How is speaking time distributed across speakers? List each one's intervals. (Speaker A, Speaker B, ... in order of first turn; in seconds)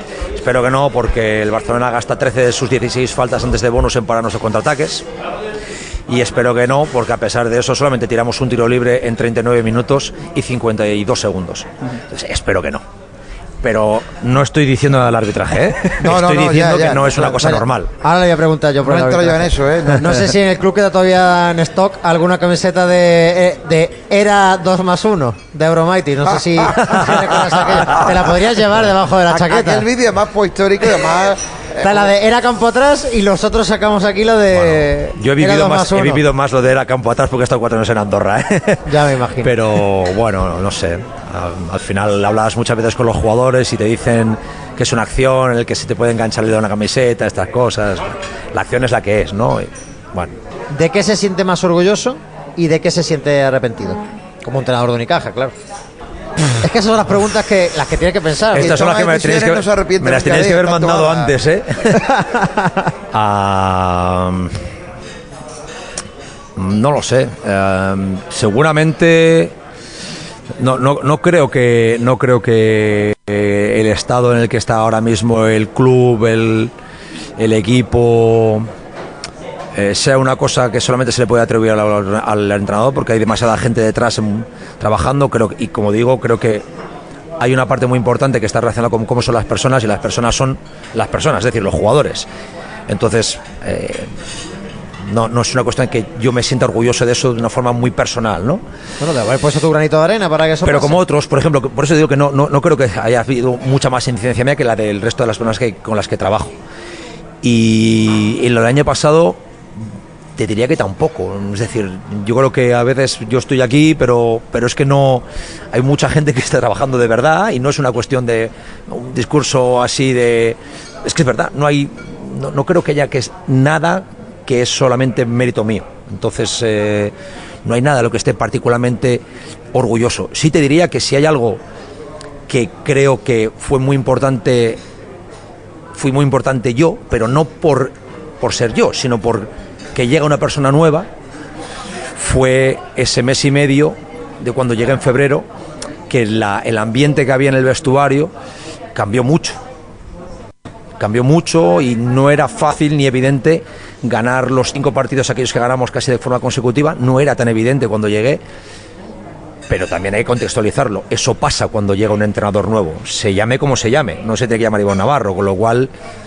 Speaker A: 0.4-5.1, 6.1-12.8, 13.6-17.9, 34.5-50.4, 58.5-62.1, 63.1-64.6, 66.6-69.5, 70.6-76.7, 77.4-78.7, 79.8-86.6, 87.4-92.3, 92.9-94.2, 95.0-98.6, 100.7-106.5, 107.4-109.4, 110.4-127.1, 127.7-131.6, 132.5-134.8, 135.9-141.1, 142.2-145.5, 146.1-148.3, 148.9-149.6, 151.0-158.4, 159.7-165.9
Speaker B: 16.0-17.5, 18.8-20.4, 26.4-27.0, 29.3-32.1, 58.6-61.4
Speaker C: 16.9-29.9, 31.8-36.2, 38.9-39.5, 50.7-55.5, 56.6-58.8, 62.2-62.7, 99.0-101.0